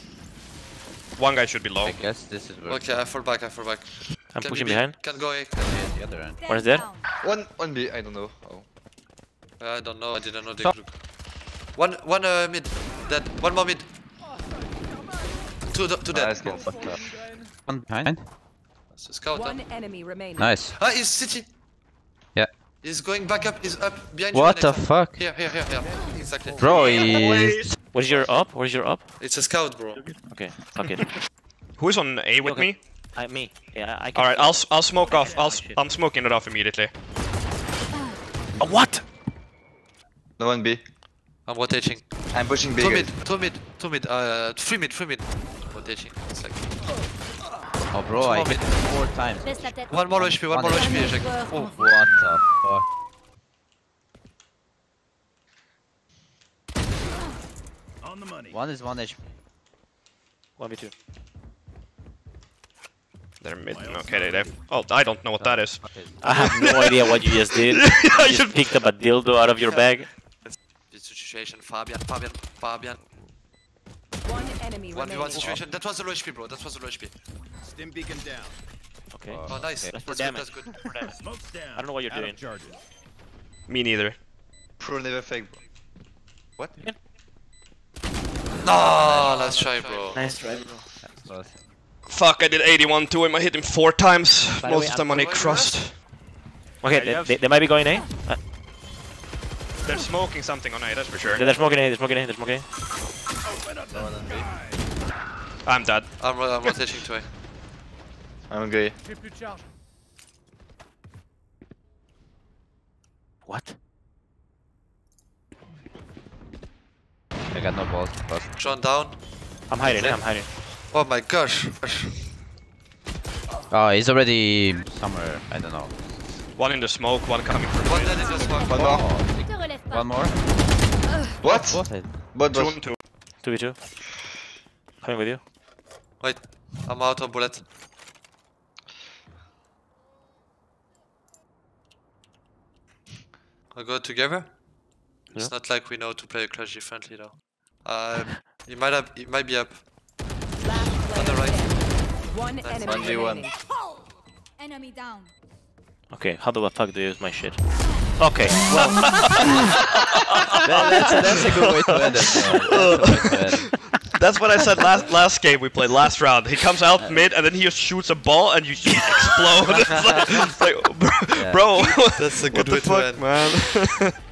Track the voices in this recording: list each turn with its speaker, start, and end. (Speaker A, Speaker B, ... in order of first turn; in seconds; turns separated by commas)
Speaker A: 1.2-2.0, Speaker B: 1.8-3.1, Speaker C: 2.7-5.5, Speaker D: 4.3-4.9, Speaker B: 5.5-6.3, Speaker E: 6.3-7.1, Speaker D: 6.5-6.9, Speaker F: 7.2-8.7, Speaker C: 9.6-11.0, Speaker C: 11.7-13.8, Speaker C: 15.7-16.6, Speaker F: 16.1-17.0, Speaker B: 16.4-18.3, Speaker C: 18.9-19.6, Speaker G: 19.3-20.6, Speaker B: 20.4-20.7, Speaker C: 20.7-21.5, Speaker C: 22.8-27.1, Speaker B: 24.3-25.3, Speaker E: 25.9-26.2, Speaker A: 26.6-27.7, Speaker B: 26.6-27.8, Speaker D: 27.9-29.2, Speaker C: 29.2-30.1, Speaker D: 29.9-31.2, Speaker A: 31.8-32.8, Speaker D: 32.4-35.8, Speaker A: 34.1-36.9, Speaker H: 35.0-35.4, Speaker E: 37.9-38.2, Speaker D: 38.6-39.0, Speaker F: 40.4-40.8, Speaker C: 41.4-46.8, Speaker F: 42.3-43.1, Speaker B: 47.9-52.9, Speaker C: 48.2-48.6, Speaker E: 49.4-52.2, Speaker C: 49.9-51.7, Speaker H: 58.0-58.6, Speaker B: 58.5-59.2, Speaker D: 60.6-60.9, Speaker A: 63.4-68.8, Speaker H: 63.6-64.9, Speaker B: 65.4-66.2, Speaker D: 66.2-70.1, Speaker C: 69.6-69.9, Speaker C: 70.4-73.0, Speaker G: 74.2-75.5, Speaker C: 74.9-77.1, Speaker H: 77.6-78.6, Speaker D: 79.1-82.4, Speaker B: 79.3-79.9, Speaker C: 79.5-81.1, Speaker H: 81.2-82.8, Speaker A: 83.7-84.2, Speaker F: 84.8-85.6, Speaker C: 88.6-90.2, Speaker F: 89.0-89.4, Speaker B: 89.0-89.3, Speaker D: 89.6-90.8, Speaker B: 91.0-91.6, Speaker A: 92.1-96.0, Speaker D: 94.6-95.1, Speaker C: 94.8-95.8, Speaker A: 96.8-97.4, Speaker D: 96.8-98.4, Speaker A: 99.8-101.5, Speaker D: 101.3-102.7, Speaker H: 103.8-104.2, Speaker F: 103.9-104.5, Speaker A: 105.6-106.8, Speaker C: 106.2-107.3, Speaker F: 108.5-109.0, Speaker D: 113.5-113.8, Speaker B: 117.5-118.8, Speaker C: 118.6-122.2, Speaker D: 119.7-120.5, Speaker B: 123.7-126.1, Speaker A: 126.5-128.2, Speaker C: 127.8-128.9, Speaker E: 128.0-130.4, Speaker F: 128.7-129.0, Speaker B: 128.7-130.3, Speaker E: 131.1-131.4, Speaker F: 131.4-132.8, Speaker B: 131.4-132.1, Speaker A: 132.4-133.0, Speaker D: 133.4-133.8, Speaker D: 135.0-135.4, Speaker C: 136.2-137.7, Speaker C: 143.7-144.6, Speaker C: 145.3-149.9, Speaker G: 150.6-153.6, Speaker C: 151.1-153.4, Speaker F: 152.8-153.5, Speaker E: 154.6-155.3, Speaker D: 156.1-159.2, Speaker E: 157.8-159.3, Speaker F: 158.7-159.0, Speaker A: 158.7-174.2, Speaker B: 160.6-163.7, Speaker D: 168.9-170.2, Speaker B: 171.3-171.7, Speaker C: 172.1-173.5